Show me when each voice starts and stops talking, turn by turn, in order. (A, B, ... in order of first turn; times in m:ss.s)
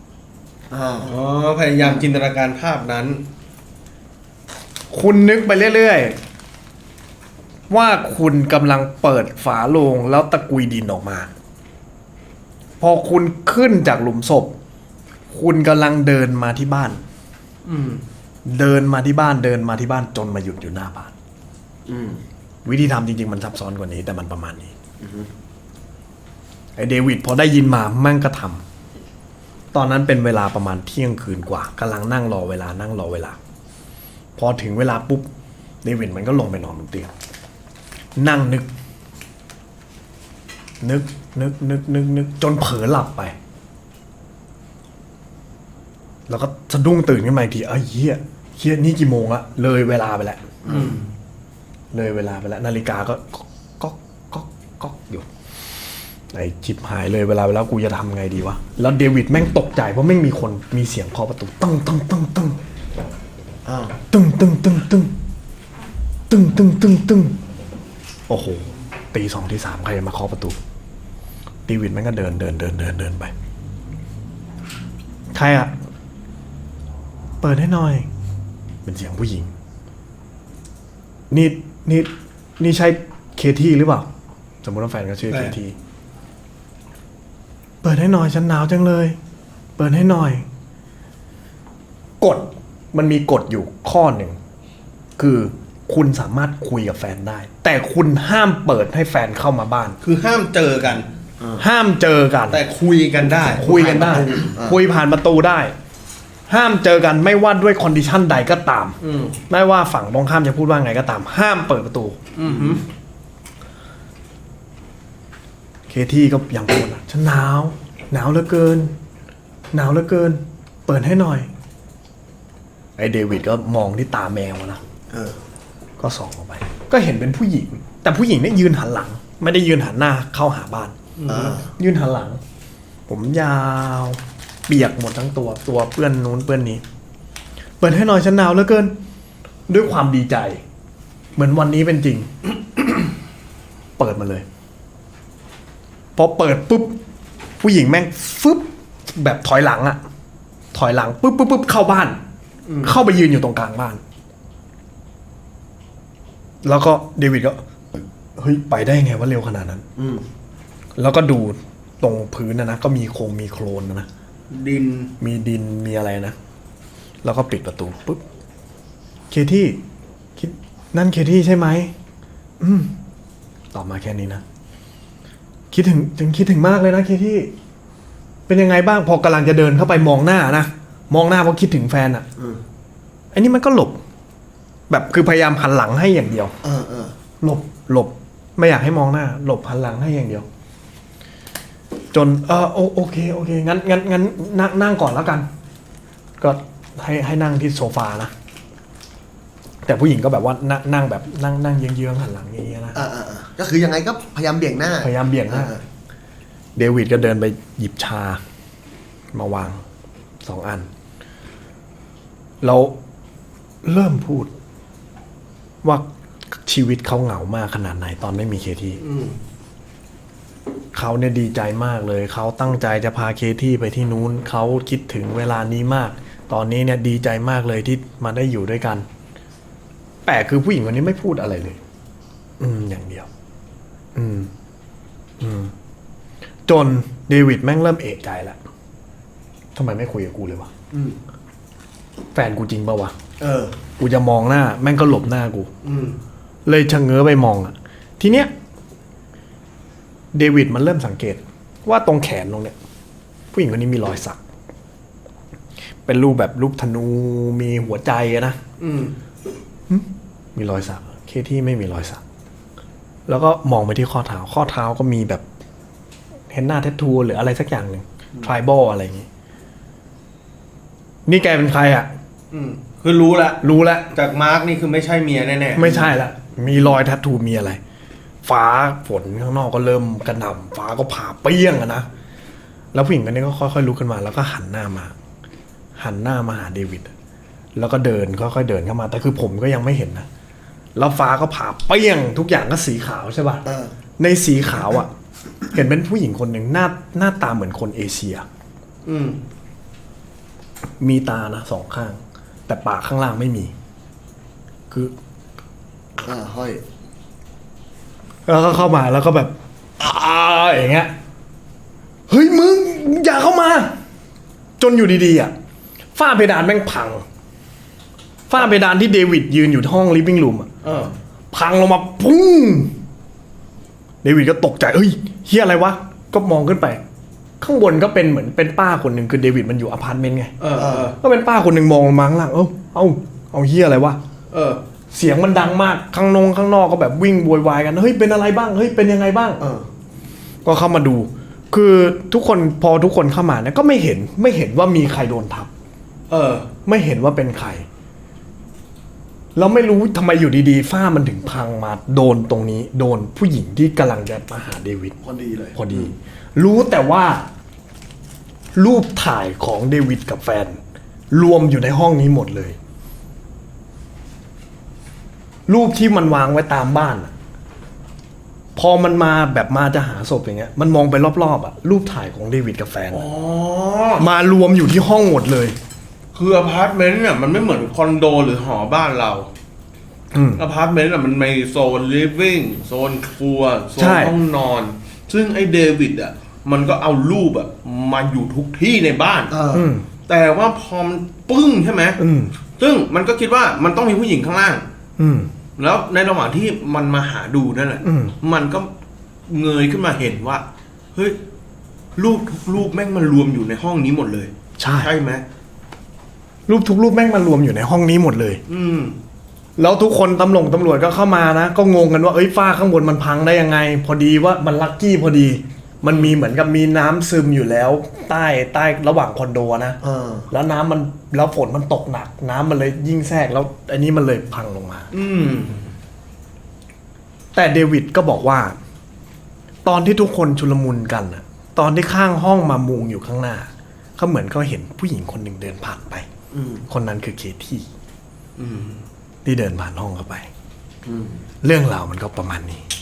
0:00.7-0:01.1 A
0:01.0-0:03.2 B
0:04.9-0:06.2 C
0:07.7-0:11.3 C
0:12.8-0:14.5 C
0:15.3-0:17.0 C
0:17.6-0:18.0 B
0:18.4-0:21.1 C
0:21.9-0:22.2 A
0:22.6-0:24.7 C
0:25.0-0:25.3 A
0:26.8-0:28.6 C
0:29.7-0:33.4 C
0:34.4-0:35.3 C
0:35.8-0:37.1 C
0:38.2-0:38.7 C
0:40.8-0:43.3 C
0:46.3-0:50.4 C
0:50.7-0:51.0 B
0:51.9-0:55.3 C
0:56.3-1:02.6 C
1:03.6-1:03.9 A
1:04.1-1:05.1 C
1:06.3-1:07.4 C
1:08.3-1:10.6 C
1:11.6-1:13.3 C
1:15.3-1:15.7 C
1:17.4-1:18.1 C
1:18.8-1:19.5 C
1:21.3-1:24.1 C
1:24.6-1:25.8 C
1:27.8-1:29.2 C
1:29.8-1:30.4 C
1:32.2-1:34.4 C
1:35.2-1:40.0 C
1:40.0-1:41.1 B
1:41.6-1:42.6 C
1:42.5-1:43.8 B
1:43.5-1:45.7 C
1:43.6-1:44.8 A
1:46.5-1:49.0 C
1:49.0-1:49.4 B
1:49.5-1:52.2 C
1:52.4-1:52.8 B
1:55.9-1:58.9 C
1:59.7-2:01.5 C
2:03.0-2:04.8 C
2:05.1-2:05.4 A
2:06.0-2:11.0 C
2:11.2-2:11.6 B
2:11.3-2:11.7 A
2:11.6-2:12.4 C
2:13.1-2:16.8 C
2:17.8-2:18.9 C
2:19.7-2:20.6 C
2:21.4-2:22.3 C
2:24.0-2:24.4 C
2:26.2-2:27.0 C
2:27.6-2:30.0 C
2:30.7-2:32.2 C
2:32.8-2:34.0 C
2:36.6-2:37.6 C
2:38.4-2:39.8 C
2:40.0-2:40.2 A
2:41.0-2:44.1 C
2:44.5-2:45.1 B
2:45.2-2:46.3 C
2:47.2-2:48.2 C
2:49.3-2:49.8 C
2:50.4-2:51.9 C
2:52.6-2:52.9 C
2:53.7-2:54.4 C
2:55.7-2:57.5 C
2:58.5-3:02.2 C
3:03.3-3:04.0 C
3:04.9-3:06.5 C
3:06.6-3:07.1 A
3:07.4-3:10.4 C
3:12.1-3:15.5 C
3:16.4-3:18.3 C
3:19.8-3:23.1 C
3:22.9-3:25.8 A
3:25.0-3:25.7 C
3:26.8-3:28.4 C
3:29.3-3:29.8 C
3:30.4-3:30.9 C
3:32.6-3:33.0 C
3:33.8-3:34.5 C
3:36.6-3:39.0 C
3:39.0-3:39.3 B
3:40.9-3:49.0 C
3:50.2-3:51.8 C
3:52.6-3:53.3 C
3:54.1-3:54.5 C
3:55.4-3:55.7 C
3:56.7-3:58.6 C
3:59.7-4:00.7 C
4:02.3-4:03.1 C
4:03.4-4:03.8 A
4:04.0-4:05.7 C
4:05.8-4:06.1 B
4:06.6-4:08.5 C
4:10.3-4:12.7 C
4:13.5-4:14.4 C
4:16.0-4:18.6 C
4:18.8-4:19.1 B
4:19.9-4:22.2 C
4:23.3-4:25.4 C
4:26.5-4:29.3 C
4:31.2-4:32.1 C
4:32.5-4:36.2 B
4:33.6-4:34.1 C
4:35.7-4:37.8 C
4:38.4-4:42.1 C
4:42.9-4:45.1 C
4:46.0-4:47.1 C
4:47.8-4:50.2 C
4:51.0-4:53.6 C
4:53.6-4:53.9 A
4:54.2-4:55.1 C
4:55.7-4:58.4 C
4:59.0-4:59.4 B
5:01.0-5:03.7 C
5:06.2-5:06.8 A
5:08.4-5:11.1 C
5:12.3-5:13.9 C
5:14.8-5:15.5 C
5:16.2-5:17.2 C
5:18.5-5:20.7 C
5:20.8-5:21.1 B
5:21.5-5:22.9 C
5:24.2-5:27.0 C
5:27.6-5:30.5 C
5:30.6-5:31.2 B
5:30.8-5:31.1 A
5:31.2-5:34.2 C
5:34.5-5:34.8 B
5:35.1-5:39.6 C
5:39.6-5:39.8 A
5:40.6-5:45.7 C
5:46.3-5:46.7 B
5:46.8-5:47.8 C
5:49.6-5:55.2 C
5:55.2-5:55.8 A
5:55.7-5:57.4 C
5:58.7-6:00.8 C
6:01.3-6:02.8 C
6:05.7-6:07.3 C
6:08.8-6:13.2 C
6:13.1-6:14.2 B
6:14.2-6:15.8 C
6:16.3-6:19.5 B
6:20.3-6:20.6 C
6:20.6-6:29.5 B
6:24.0-6:24.4 C
6:29.5-6:29.9 A
6:29.7-6:30.1 C
6:30.2-6:32.2 B
6:32.2-6:32.5 C
6:32.8-6:34.8 B
6:35.2-6:35.5 C
6:35.8-6:38.9 B
6:38.0-6:38.4 C
6:39.5-6:40.6 B
6:42.2-6:45.4 B
6:44.8-6:45.1 C
6:46.7-6:48.6 C
6:48.7-6:49.1 B
6:49.8-7:00.0 C
7:00.0-7:00.5 A
7:00.5-7:05.1 C
7:05.1-7:05.9 B
7:07.5-7:08.8 C
7:09.8-7:16.2 C
7:16.5-7:16.8 A
7:16.9-7:17.9 C
7:18.6-7:19.0 B
7:19.4-7:20.5 C
7:21.0-7:21.4 A
7:21.6-7:22.8 C